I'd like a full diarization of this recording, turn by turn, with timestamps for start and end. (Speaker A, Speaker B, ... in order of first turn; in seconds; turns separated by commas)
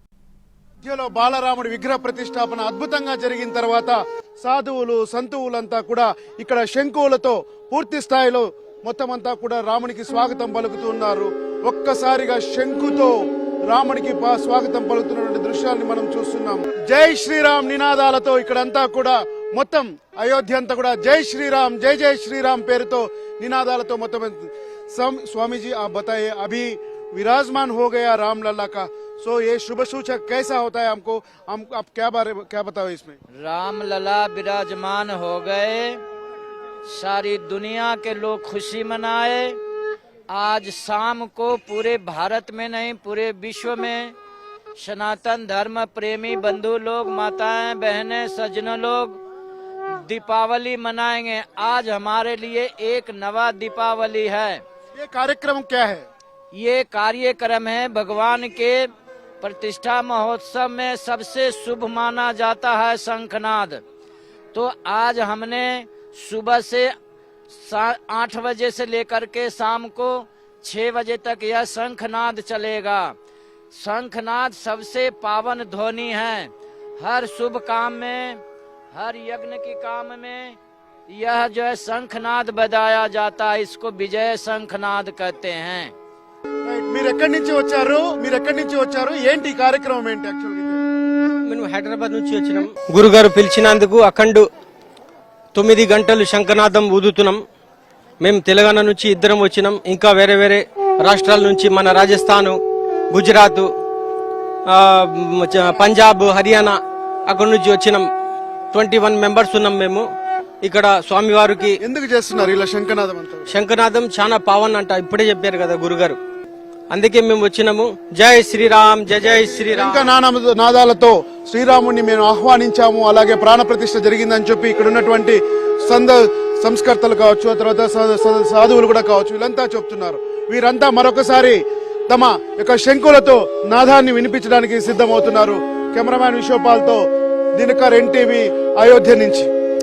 Speaker A: 0.8-13.2, Speaker A: 13.7-33.2, Speaker B: 33.4-36.0, Speaker B: 36.9-39.6, Speaker B: 40.3-44.1, Speaker B: 44.8-49.2, Speaker B: 49.9-54.6, Speaker A: 55.0-56.1, Speaker B: 56.5-58.9, Speaker B: 59.4-63.8, Speaker B: 64.5-66.9, Speaker B: 67.5-73.2, Speaker B: 73.7-78.4, Speaker B: 78.9-80.6, Speaker B: 81.1-85.9, Speaker A: 86.7-90.8, Speaker C: 91.5-94.5, Speaker C: 95.5-97.4, Speaker C: 98.2-102.6, Speaker C: 103.1-103.7, Speaker C: 104.7-108.1, Speaker C: 108.7-110.0, Speaker C: 110.6-111.8, Speaker A: 111.8-113.5, Speaker C: 113.5-116.2, Speaker C: 116.9-120.1, Speaker A: 119.7-139.5